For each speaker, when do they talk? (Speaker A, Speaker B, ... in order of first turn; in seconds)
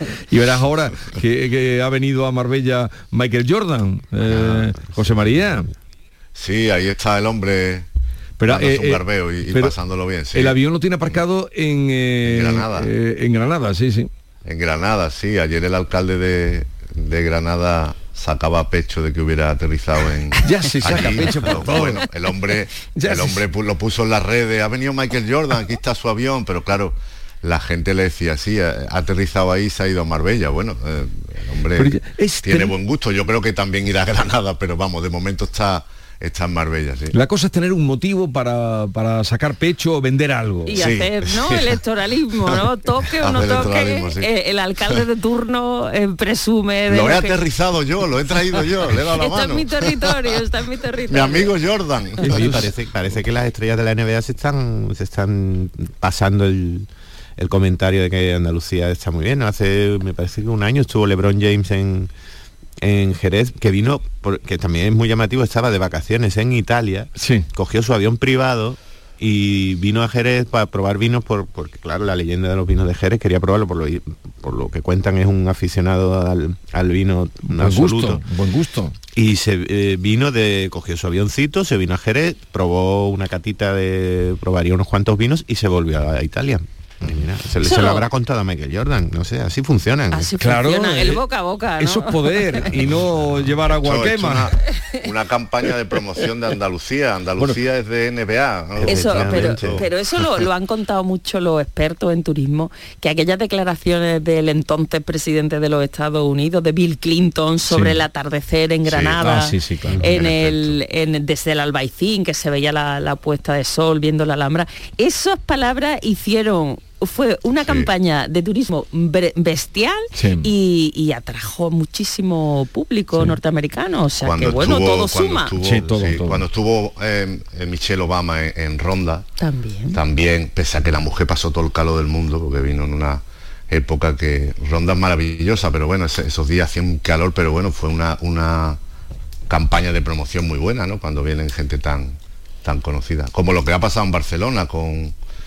Speaker A: 0.3-5.7, 8.4-9.7, 10.3-14.1, 20.4-22.1, 22.9-23.4, 31.8-32.7, 37.1-40.8, 52.2-52.7, 67.2-67.5, 77.5-79.0, 90.4-91.2, 91.8-94.5, 107.7-108.0, 109.2-110.0, 120.1-120.5, 125.6-126.4
Speaker B: 4.3-5.2, 52.2-62.1, 62.8-78.2, 79.1-90.3, 98.8-99.8
Speaker C: 6.3-7.8, 8.4-10.6, 12.2-12.9, 14.4-37.1, 40.7-41.8, 42.5-44.3, 46.9-50.4, 51.1-52.5, 93.2-100.5, 108.8-109.2, 109.9-110.8, 117.6-117.9, 124.2-129.3, 129.9-138.8, 139.5-145.1
Speaker D: 40.7-47.4, 48.5-51.6, 87.6-88.1, 90.1-92.8, 98.8-125.5, 129.4-130.0